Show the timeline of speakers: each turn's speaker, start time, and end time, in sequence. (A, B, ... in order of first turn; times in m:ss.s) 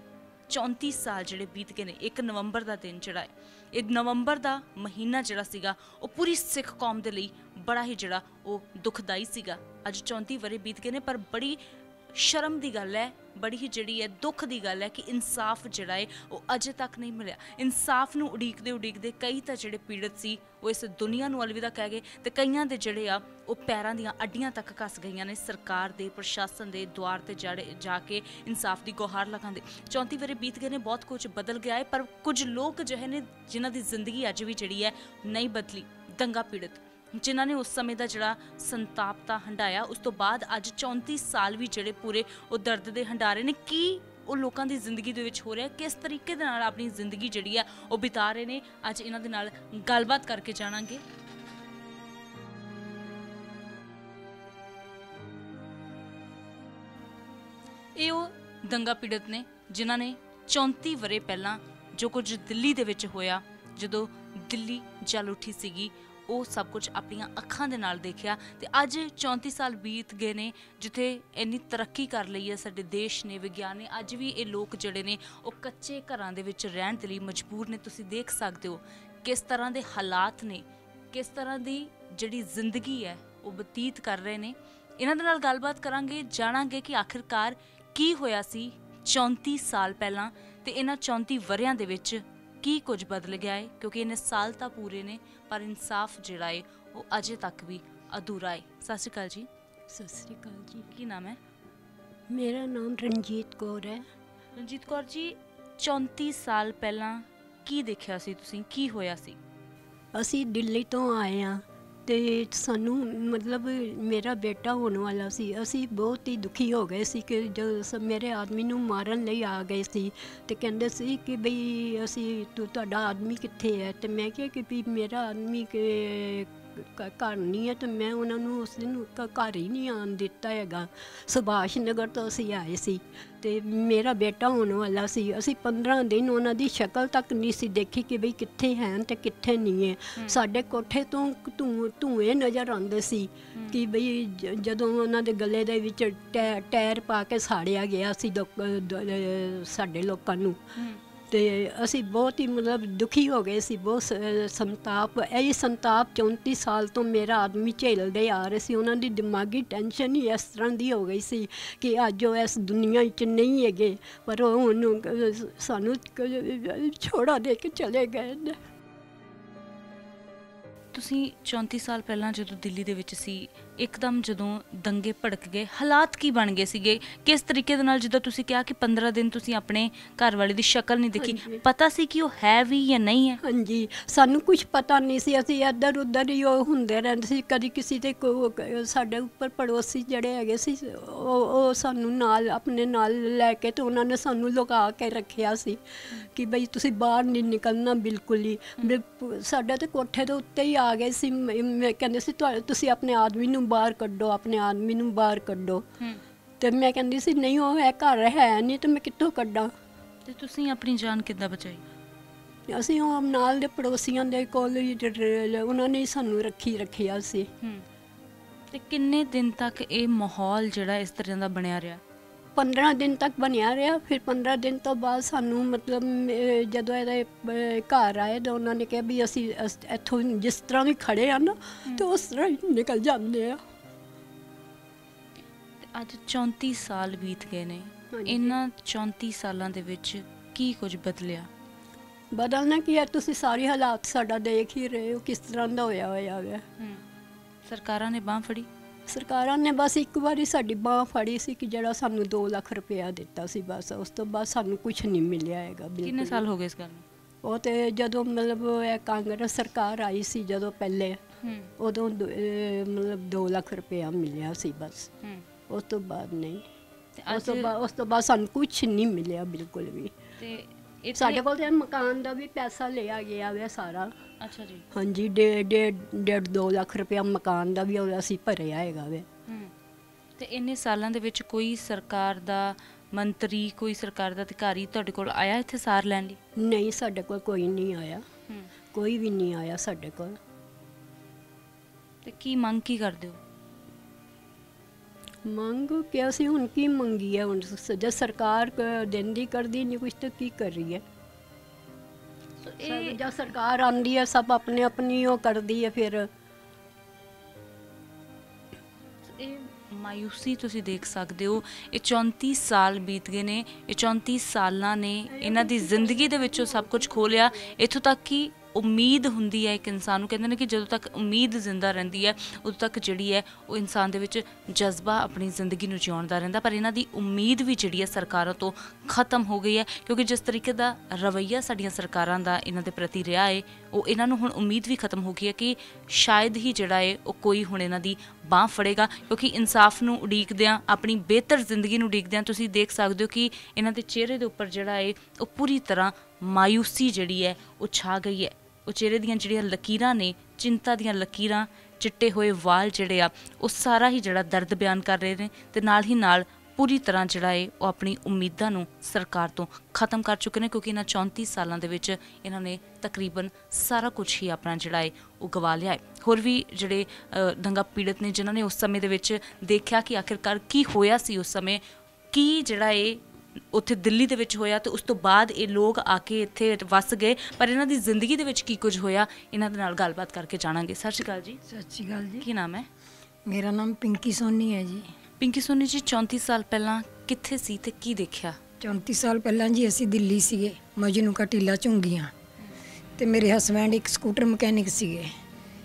0:00.5-0:11.6 A
0:12.1-0:51.0 A
0:58.0-1:39.5 A
1:39.9-1:40.8 B
1:40.9-1:41.4 A
1:42.3-1:44.0 B
1:44.6-1:49.4 A
1:50.1-2:30.6 B
2:31.3-2:48.6 B
2:50.9-3:03.4 A
3:01.2-3:01.6 B
3:03.4-3:25.8 B
3:26.6-3:29.7 B
3:30.2-3:31.8 A
3:32.7-3:37.5 B
3:37.6-3:37.8 A
3:38.7-3:42.0 A
3:42.6-3:53.6 B
3:55.8-4:01.5 A
3:58.1-3:58.6 B
4:02.3-4:06.6 B
4:07.6-4:08.7 A
4:09.1-4:16.4 B
4:16.0-4:17.0 A
4:17.4-4:21.2 B
4:21.4-4:21.7 A
4:21.8-4:25.1 B
4:25.7-4:26.6 B
4:27.2-4:27.7 A
4:27.3-4:30.2 B
4:30.4-4:31.4 A
4:31.2-4:34.1 B
4:34.4-4:34.8 A
4:34.9-4:39.3 B
4:39.5-4:39.7 A
4:40.4-4:46.4 A
4:46.6-4:48.2 B
4:48.9-4:50.4 B
4:52.2-4:53.4 A
4:55.4-5:01.0 B
5:02.6-5:03.2 A
5:02.8-5:06.3 B
5:09.2-6:21.6 A
5:15.3-5:17.8 B
6:21.7-6:22.4 C
6:22.4-6:22.9 A
6:23.4-6:25.1 C
6:25.4-6:28.6 A
6:28.8-6:32.3 C
6:33.2-6:35.3 C